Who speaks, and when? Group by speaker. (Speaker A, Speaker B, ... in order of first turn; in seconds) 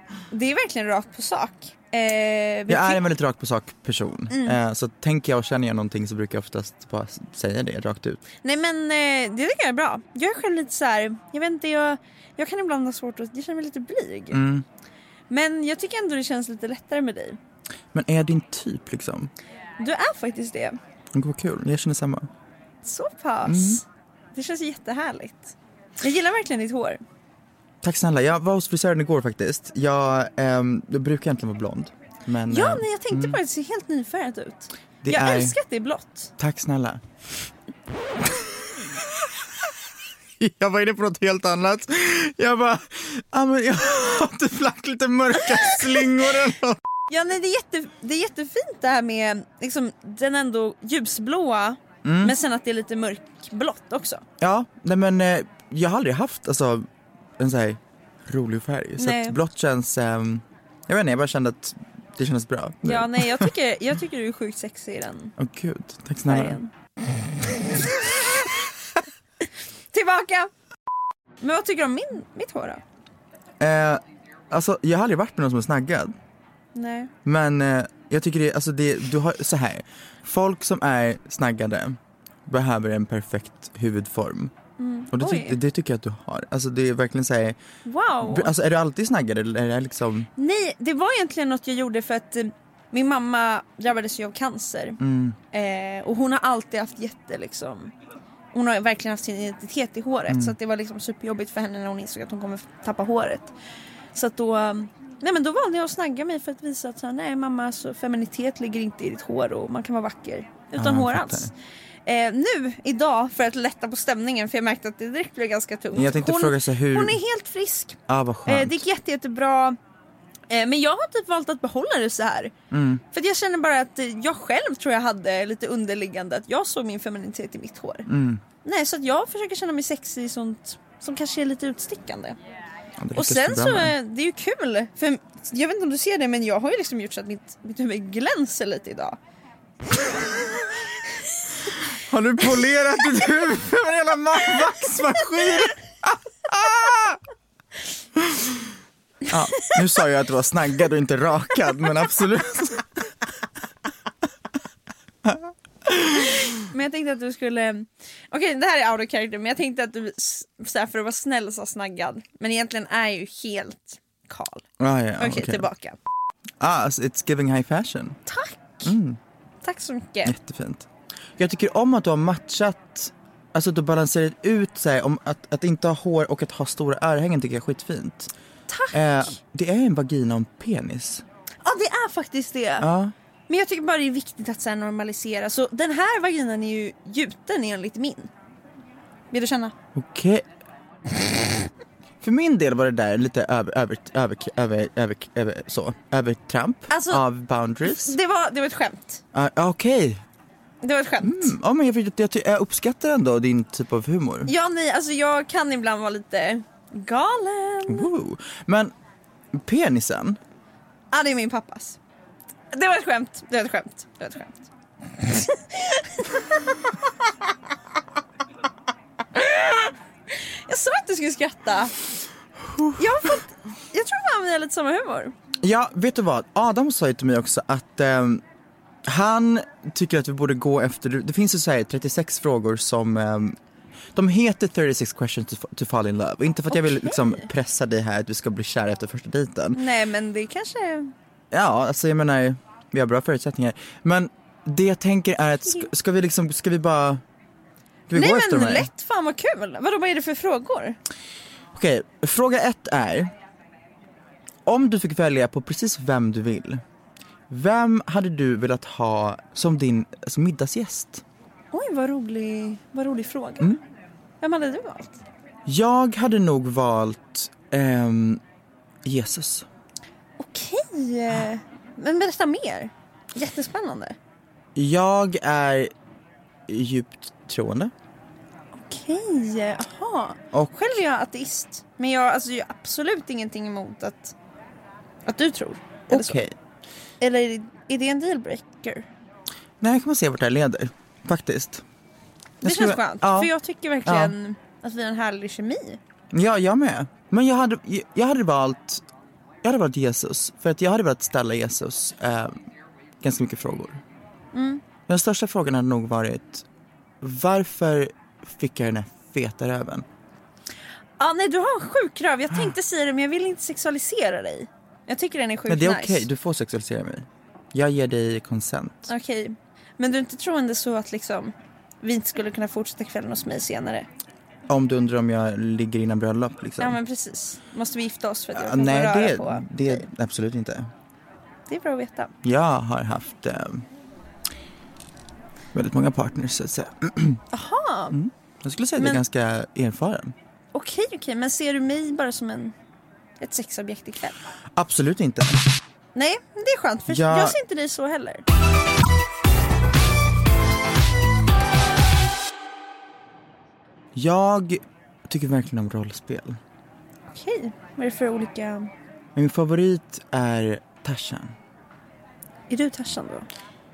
Speaker A: 0.3-3.0, 4.3-4.6, 8.4-14.4, 15.3-17.4, 19.8-20.8, 22.8-23.8, 24.3-27.0, 32.5-36.3, 47.1-54.2, 59.0-59.4, 62.8-65.3, 66.3-66.7, 69.9-70.5, 71.4-72.8, 76.7-77.1, 84.8-85.6, 87.8-88.5, 90.4-95.0, 95.5-97.9, 98.5-103.5, 104.1-111.5, 112.0-119.8, 120.5-122.5, 123.1-128.1, 128.6-132.4, 133.1-139.2, 149.3-149.8, 156.4-164.7, 165.2-166.0, 168.3-168.9, 169.6-170.3, 178.7-179.3, 181.6-182.9, 183.5-188.3, 189.3-189.7, 196.9-197.2, 197.8-199.2, 200.8-201.5, 204.4-208.1, 211.1-212.0, 212.7-214.6, 215.2-216.8, 219.3-221.9, 223.0-225.3, 236.7-237.5, 239.7-241.1, 248.1-251.0, 261.7-263.8, 264.4-265.2, 270.4-274.1, 278.8-284.3, 285.2-286.4, 287.2-289.1, 292.6-296.0, 304.5-304.8, 311.2-316.3, 319.1-324.1, 326.8-330.0, 331.7-332.3, 337.5-338.1, 340.7-342.7, 343.4-344.4, 346.1-348.4, 357.3-358.9, 362.7-363.5
Speaker B: 2.7-8.2, 14.3-14.7, 17.9-19.3, 21.1-22.3, 23.4-23.8, 27.8-33.4, 35.0-35.5, 36.4-37.0, 40.4-46.8, 52.0-52.4, 54.4-56.9, 57.4-63.5, 65.4-66.6, 73.6-76.1, 77.2-84.5, 85.1-87.6, 88.2-90.3, 95.0-95.4, 100.3-100.5, 110.8-111.5, 115.9-117.2, 118.1-118.8, 122.7-123.0, 128.1-128.4, 133.0-133.9, 141.9-147.2, 148.2-148.6, 149.3-152.8, 155.2-156.6, 164.8-165.7, 166.6-168.2, 168.8-169.2, 170.2-178.3, 178.9-181.2, 182.8-183.1, 189.9-190.4, 191.1-191.7, 192.2-198.2, 199.3-200.2, 201.2-204.5, 207.9-208.9, 209.5-210.4, 222.6-223.4, 225.6-228.4, 229.0-233.6, 234.1-239.8, 241.5-247.2, 248.1-248.9, 251.7-253.3, 254.7-256.8, 257.5-261.2, 265.6-268.4, 269.0-269.7, 274.7-275.9, 276.7-277.9, 286.1-286.5, 289.8-291.8, 292.6-293.5, 294.0-294.3, 296.3-299.0, 299.6-302.6, 303.2-304.0, 305.1-306.6, 307.2-310.1, 315.7-319.1, 324.7-327.0, 328.5-330.9, 332.4-333.8, 335.7-337.4, 338.1-340.3, 344.8-345.6, 347.1-347.6, 354.1-356.6, 359.3-361.6